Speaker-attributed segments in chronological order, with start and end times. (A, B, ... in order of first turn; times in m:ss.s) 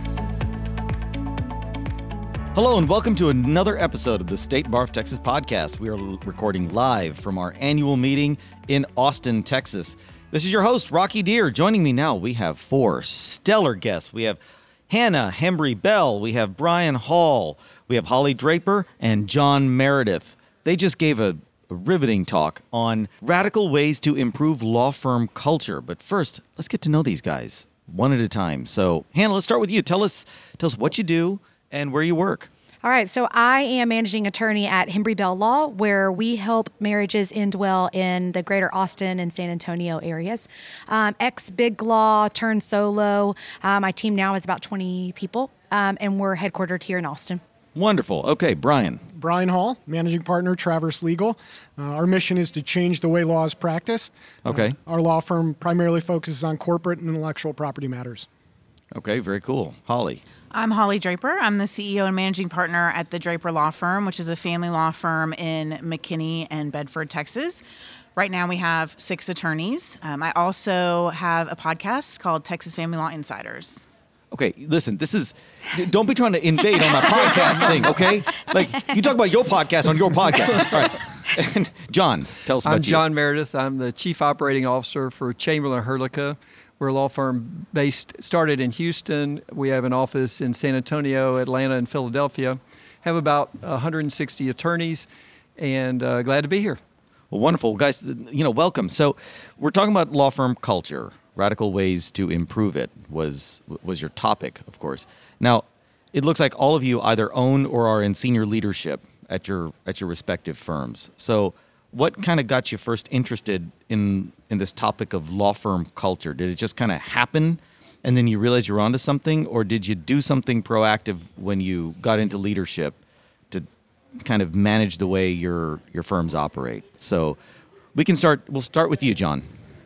0:02.5-0:32.5 A
0:32.8-0:47.4 B
0:47.8-0:49.0 A
0:49.1-0:58.3 C
0:54.5-0:54.8 A
0:58.9-1:00.2 A
1:00.5-1:07.6 D
1:08.2-1:13.9 D
1:14.3-1:23.0 A
1:22.6-1:35.1 E
1:35.6-1:36.8 E
1:37.3-2:03.0 A
2:04.2-2:07.4 A
2:08.0-2:09.4 A